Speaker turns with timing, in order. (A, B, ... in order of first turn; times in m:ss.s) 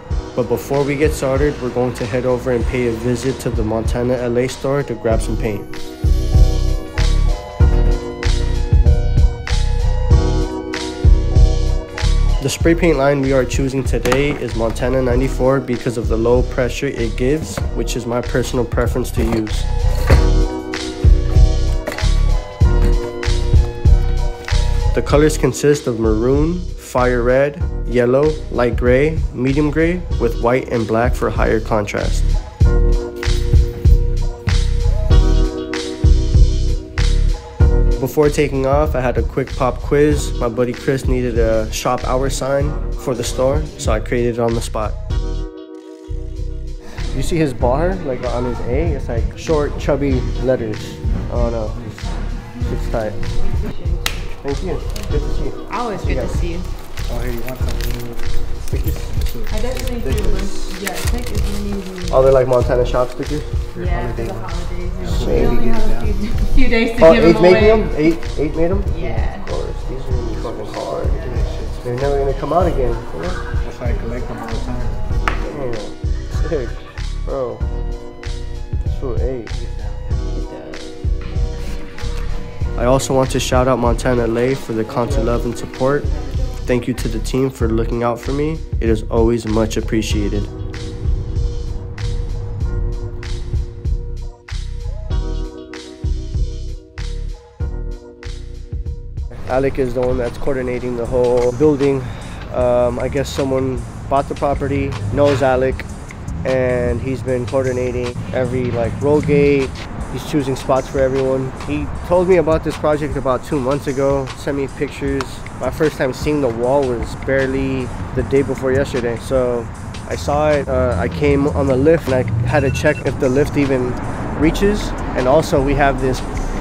0:00.3-0:05.7 A
0:12.4-0:19.7 A
0:24.9-0:32.3 A
0:38.0-0:45.0 A
0:47.1-0:51.8 A
0:52.6-0:53.2 A
0:53.3-0:54.3 B
0:54.4-0:56.4 A
0:55.7-0:56.7 B
0:57.1-0:58.2 C
0:58.7-0:59.1 A
0:58.8-0:59.6 C
0:59.5-1:02.3 B
0:59.9-1:00.8 A
1:02.1-1:03.6 A
1:03.7-1:07.9 B
1:03.8-1:04.4 C
1:05.0-1:05.6 A
1:05.0-1:06.1 C
1:07.0-1:13.4 A
1:08.9-1:09.5 B
1:10.5-1:11.8 C
1:11.0-1:11.5 B
1:13.6-1:15.0 C
1:15.4-1:17.6 A
1:18.9-1:19.5 A
1:19.6-1:19.8 C
1:20.4-1:20.9 B
1:22.8-1:26.1 A
1:26.6-1:30.5 A
1:39.5-1:45.9 A
1:46.4-2:06.2 A